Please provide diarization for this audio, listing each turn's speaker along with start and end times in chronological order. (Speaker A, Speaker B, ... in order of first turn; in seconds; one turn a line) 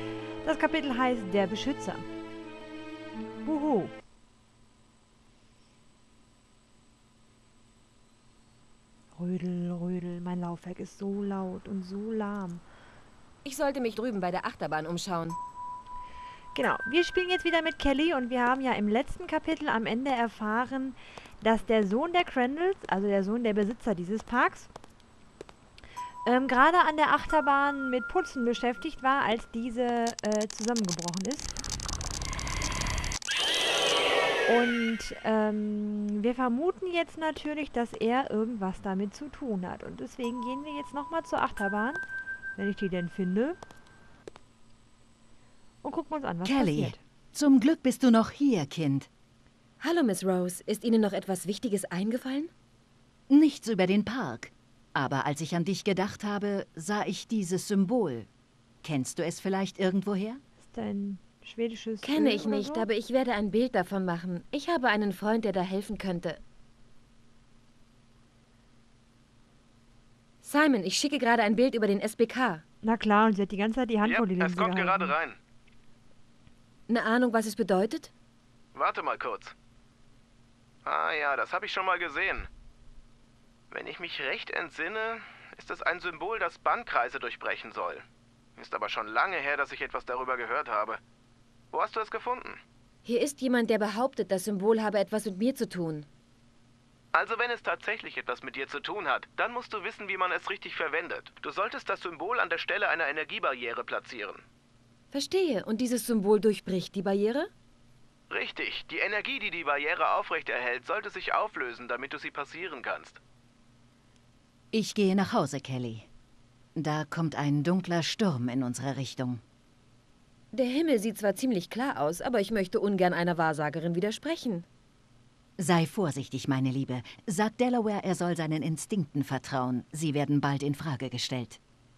Speaker A: 0.4-2.0
Speaker A: 3.4-3.9
Speaker A: 9.2-12.6
Speaker B: 13.4-15.4
Speaker A: 16.5-24.7
Speaker A: 26.2-31.5
Speaker A: 34.5-42.0
Speaker A: 42.6-43.6
Speaker A: 45.8-47.0
Speaker C: 46.4-49.1
Speaker B: 49.8-52.5
Speaker C: 53.3-58.3
Speaker C: 58.8-60.4
Speaker A: 60.6-62.9
Speaker B: 62.0-66.4
Speaker B: 70.4-72.6
Speaker A: 72.8-75.2
Speaker D: 74.0-75.4
Speaker B: 76.9-78.1
Speaker D: 78.7-79.5
Speaker D: 80.8-82.5
Speaker D: 83.7-88.0
Speaker D: 88.5-91.0
Speaker D: 91.7-92.6
Speaker B: 93.0-96.1
Speaker D: 97.1-104.4
Speaker B: 105.1-107.5
Speaker D: 108.3-113.2
Speaker C: 114.7-116.1
Speaker C: 116.7-119.4
Speaker B: 120.5-124.7
Speaker C: 125.6-131.6